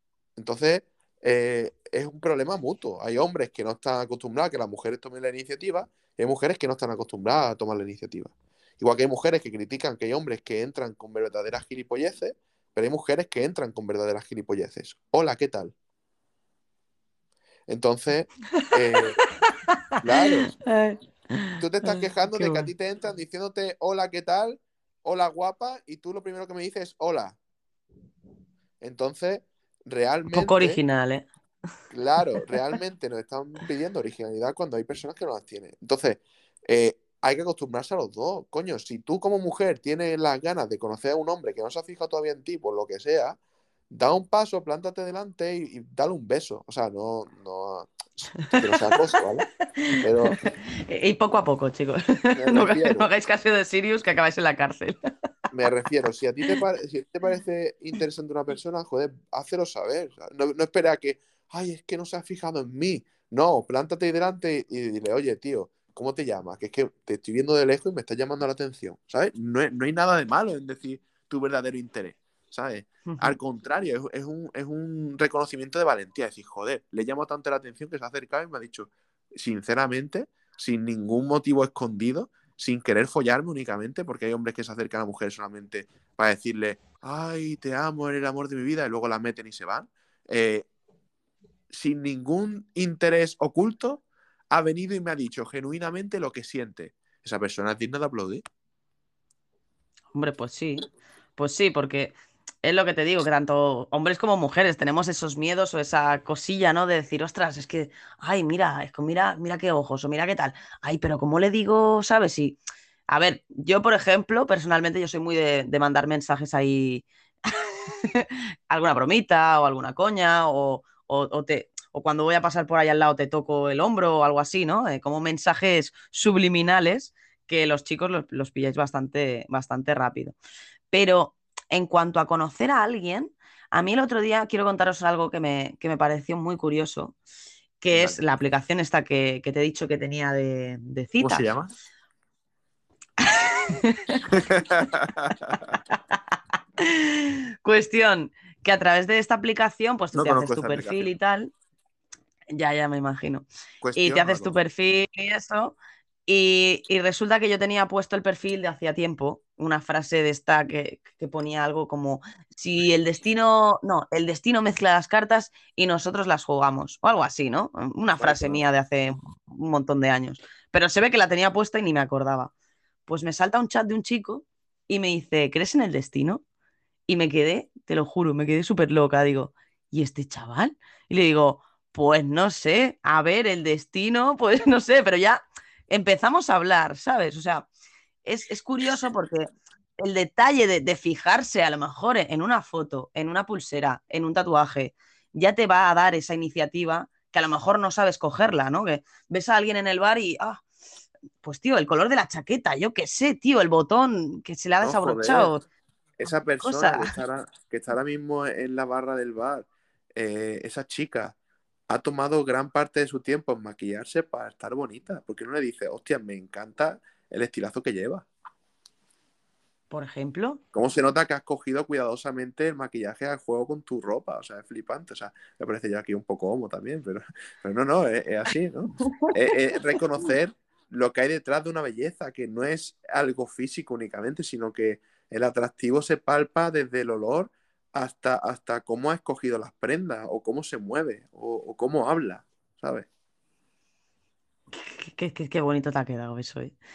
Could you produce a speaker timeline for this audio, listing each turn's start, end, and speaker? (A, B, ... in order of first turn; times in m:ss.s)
0:00.4-0:15.7 A
0:17.7-0:19.2 A
0:20.0-0:20.5 A
0:20.5-0:22.7 B
0:21.6-0:27.4 A
0:28.8-0:30.8 A
0:30.3-0:31.2 B
0:31.9-0:43.4 A
0:43.9-0:49.4 A
0:49.9-0:55.0 B
0:50.0-0:50.4 A
0:52.4-0:53.1 A
0:55.5-1:30.6 A
1:13.0-1:13.4 B
1:31.7-1:38.4 A
1:40.1-1:42.1 B
1:42.6-2:10.4 B
2:10.9-2:17.2 B
2:17.8-2:21.5 B
2:17.9-2:18.2 A
2:21.2-2:21.7 A
2:23.2-2:24.2 B
2:24.3-2:25.6 A
2:26.8-2:31.5 B
2:30.1-2:31.1 A
2:32.5-2:35.8 B
2:33.8-2:34.5 A
2:36.3-2:52.5 B
2:48.2-2:48.6 A
2:53.1-2:56.4 B
2:57.1-3:07.7 B
3:08.2-3:20.6 B
3:21.4-3:25.6 B
3:24.8-3:25.5 A
3:26.2-3:31.3 A
3:26.6-3:27.1 B
3:31.9-3:38.3 A
3:39.9-3:40.6 B
3:40.7-4:03.1 A
3:49.0-3:49.3 B
4:04.7-4:06.7 B